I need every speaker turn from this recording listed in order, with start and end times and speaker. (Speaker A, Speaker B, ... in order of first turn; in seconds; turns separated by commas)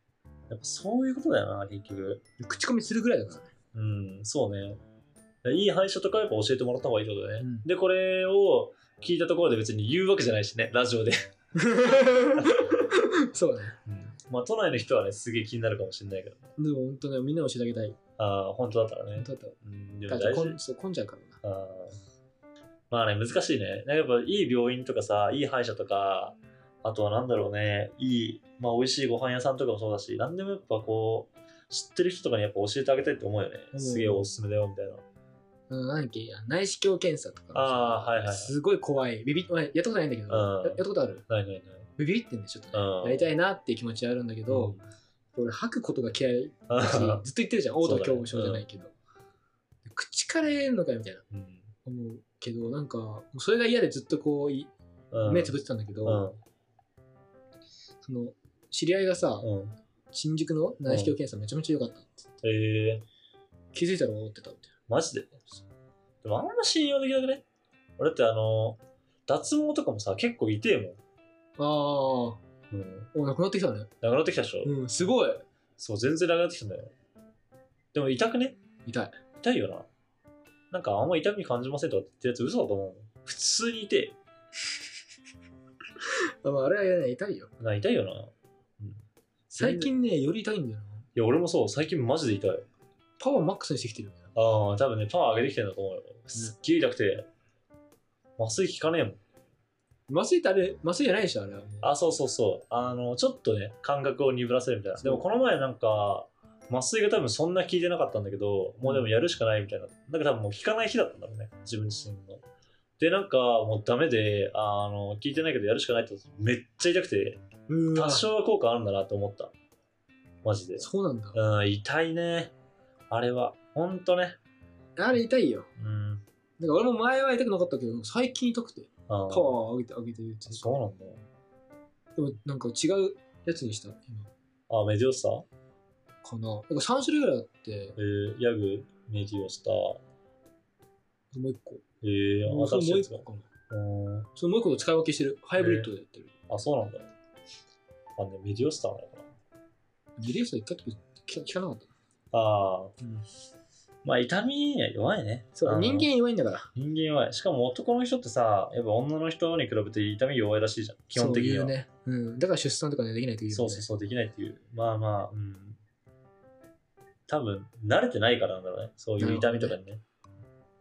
Speaker A: 0.5-2.2, Speaker B: 2.4-3.5, Speaker A: 3.7-4.8, Speaker A: 5.4-11.2, Speaker B: 7.4-7.7, Speaker B: 11.6-13.8, Speaker A: 13.9-16.5, Speaker B: 16.6-18.0, Speaker A: 18.2-20.6, Speaker B: 19.1-21.4, Speaker A: 21.4-22.0, Speaker A: 22.9-35.0, Speaker B: 33.7-34.3, Speaker B: 35.7-41.2, Speaker A: 37.5-38.5, Speaker A: 40.3-41.9, Speaker B: 42.0-44.8, Speaker A: 42.7-43.3, Speaker A: 44.5-44.8, Speaker B: 45.3-48.9, Speaker A: 46.7-47.2, Speaker A: 47.8-48.6, Speaker B: 49.8-51.2, Speaker A: 51.3-51.7, Speaker B: 51.9-54.7, Speaker A: 55.1-56.4, Speaker B: 55.2-56.2, Speaker B: 58.0-59.5, Speaker A: 59.4-59.8, Speaker B: 60.1-62.3, Speaker A: 60.8-61.1, Speaker A: 62.4-63.0, Speaker B: 63.7-64.7, Speaker A: 64.9-65.4, Speaker A: 66.2-67.4, Speaker A: 68.0-71.0, Speaker B: 71.6-72.4, Speaker A: 72.7-73.1, Speaker B: 73.1-73.9, Speaker A: 74.0-74.7, Speaker B: 74.6-75.4, Speaker A: 75.8-76.9, Speaker A: 77.9-78.6, Speaker B: 78.8-79.2, Speaker A: 79.4-79.9, Speaker A: 80.7-84.2, Speaker B: 86.0-87.5, Speaker A: 87.6-89.9, Speaker B: 89.5-91.1, Speaker A: 91.1-92.7, Speaker B: 93.2-94.2, Speaker A: 94.3-97.3, Speaker A: 98.4-99.2, Speaker B: 100.1-101.9, Speaker A: 101.8-112.4, Speaker B: 105.0-105.2, Speaker A: 113.0-119.5, Speaker B: 117.7-118.3, Speaker A: 120.4-122.5, Speaker B: 120.8-121.4, Speaker A: 123.1-124.4, Speaker B: 125.0-125.7, Speaker A: 125.8-126.2, Speaker B: 126.6-130.7, Speaker A: 129.1-129.6, Speaker A: 130.5-131.2, Speaker B: 132.2-134.3, Speaker A: 134.7-135.4, Speaker B: 136.2-137.9, Speaker A: 137.9-140.0, Speaker B: 141.3-141.8, Speaker A: 142.0-144.3, Speaker B: 142.4-143.4, Speaker B: 144.3-146.3, Speaker A: 145.6-145.9, Speaker A: 146.5-147.1, Speaker A: 148.2-149.3, Speaker B: 150.2-151.9, Speaker A: 152.3-152.9, Speaker B: 153.0-153.2, Speaker A: 154.0-156.1, Speaker B: 155.6-156.7, Speaker A: 156.7-161.7, Speaker B: 161.1-163.9, Speaker A: 163.5-165.8, Speaker A: 167.3-170.0, Speaker B: 169.2-169.8